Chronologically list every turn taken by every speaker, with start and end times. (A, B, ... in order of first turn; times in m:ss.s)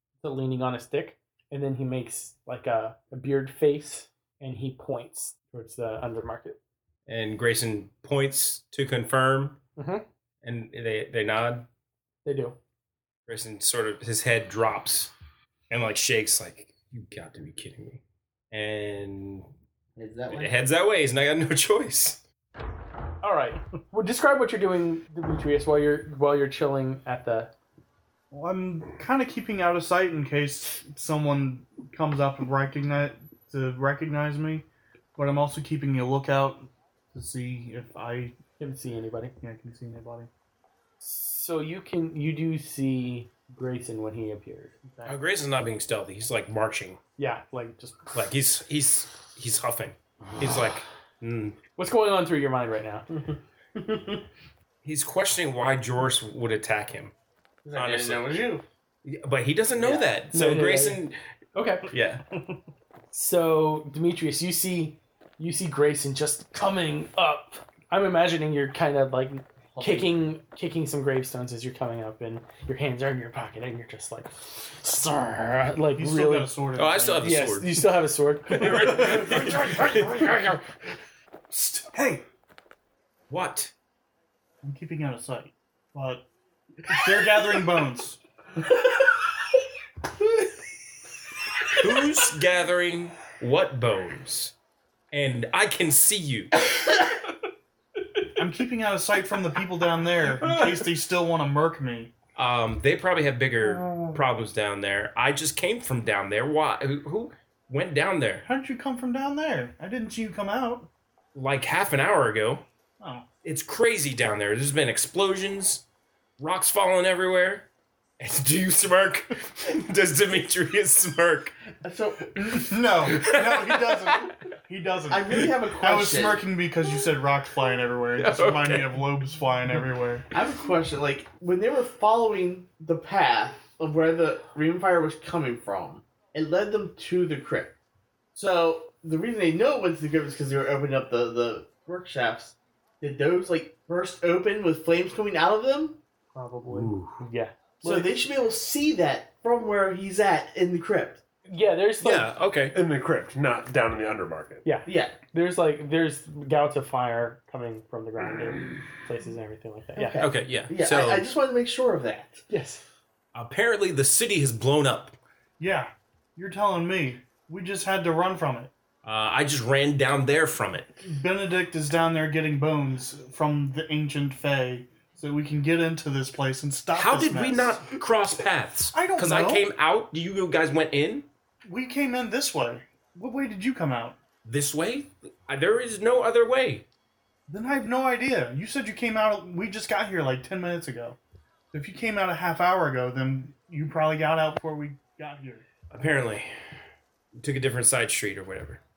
0:00.2-0:06.6 A
0:07.1-0:09.6 B
0:09.8-0:10.0 A
0:10.4-0:11.7 B
0:12.2-0:12.6 A
0:13.3-0:15.1 B
0:15.7-0:19.5 B
0:20.0-0:20.6 C
0:20.3-0:22.2 B
0:23.2-0:27.5 A
0:28.3-0:38.4 D
0:38.6-0:39.3 A
0:39.4-0:40.3 D
0:41.0-0:44.8 A
0:44.8-0:45.2 D
0:45.0-0:47.0 B
0:47.2-0:48.2 A
0:48.1-0:51.6 B
0:51.8-0:53.1 A
0:53.7-0:54.2 C
0:54.8-0:57.1 B
0:57.6-0:58.6 C
0:57.7-0:58.5 B
0:59.0-1:01.2 B
0:59.8-1:00.1 C
1:00.3-1:01.9 A
1:01.9-1:02.2 B
1:03.1-1:16.5 A
1:09.7-1:10.2 C
1:15.9-1:17.4 D
1:16.7-1:17.8 B
1:17.2-1:19.4 A
1:18.5-1:20.5 B
1:21.5-1:22.2 D
1:23.3-1:23.7 B
1:24.6-1:26.3 D
1:26.9-1:28.2 D
1:31.7-1:34.5 B
1:35.1-1:36.8 B
1:38.4-1:42.1 D
1:42.4-1:48.4 B
1:43.6-1:44.2 D
1:48.4-1:50.9 D
1:51.3-1:52.6 B
1:53.0-1:53.3 D
1:53.4-1:55.8 B
1:56.4-1:57.7 B
1:58.2-2:01.5 B
2:01.8-2:02.6 C
2:02.4-2:10.2 D
2:03.1-2:04.3 B
2:05.1-2:06.4 C
2:08.2-2:09.0 B
2:10.3-2:17.7 C
2:18.3-2:26.0 C
2:26.3-2:26.9 D
2:26.7-2:27.2 B
2:27.2-2:28.0 A
2:27.8-2:31.2 C
2:31.5-2:32.3 A
2:32.0-2:32.8 B
2:32.7-2:34.6 E
2:34.6-2:40.3 A
2:34.8-2:35.2 C
2:40.0-2:42.4 C
2:40.2-2:41.2 B
2:42.5-2:42.8 A
2:43.3-2:45.2 B
2:45.6-2:48.7 D
2:49.0-2:50.9 B
2:51.0-2:57.9 D
2:56.9-3:01.3 B
2:58.9-2:59.6 D
3:01.6-3:04.2 D
3:04.4-3:06.8 B
3:07.5-3:11.2 D
3:11.7-3:15.6 D
3:15.9-3:16.5 B
3:17.3-3:18.8 B